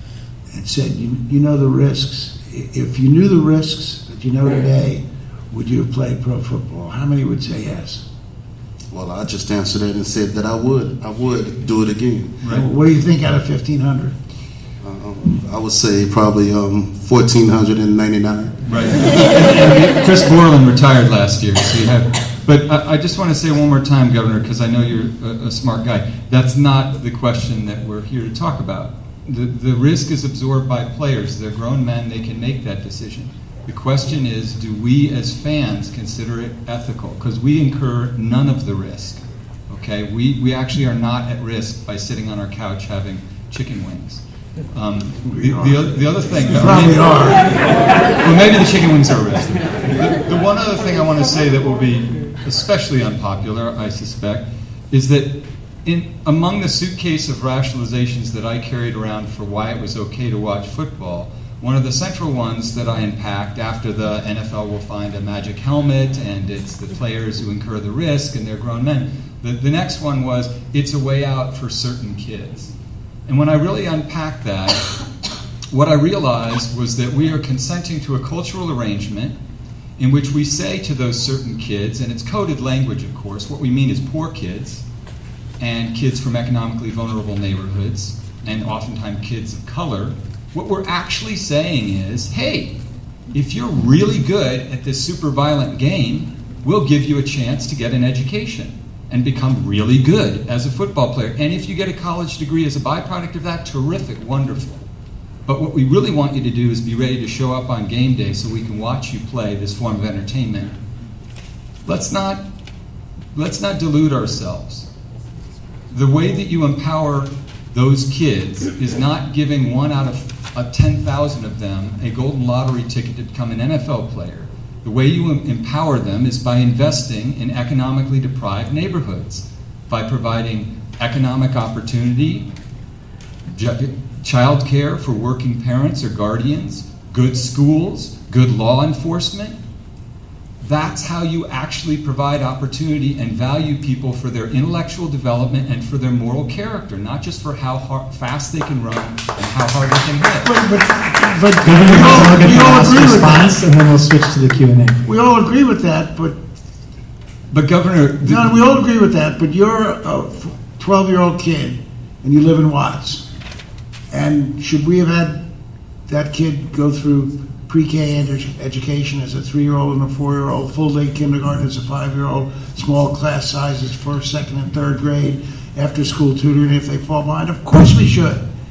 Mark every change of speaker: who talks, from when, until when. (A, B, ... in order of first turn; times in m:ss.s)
0:00.5-0:08.0 A
0:08.9-0:12.3 B
0:12.5-0:14.2 A
0:14.8-0:18.5 B
0:18.6-0:44.2 C
0:44.7-1:12.7 C
0:45.3-0:47.6 A
1:13.3-1:14.9 C
1:15.7-1:19.3 C
1:20.0-1:24.8 C
1:25.6-1:32.8 C
1:33.3-1:44.8 C
1:45.4-1:50.8 C
1:51.8-1:52.4 C
1:53.3-1:54.9 C
1:55.9-2:12.4 C
2:13.5-2:19.6 C
2:20.6-2:30.5 C
2:30.4-2:33.6 A
2:31.1-2:35.0 D
2:35.0-2:36.4 A
2:37.5-2:38.5 C
2:38.2-2:43.2 A
2:44.1-2:45.4 A
2:46.1-2:58.4 A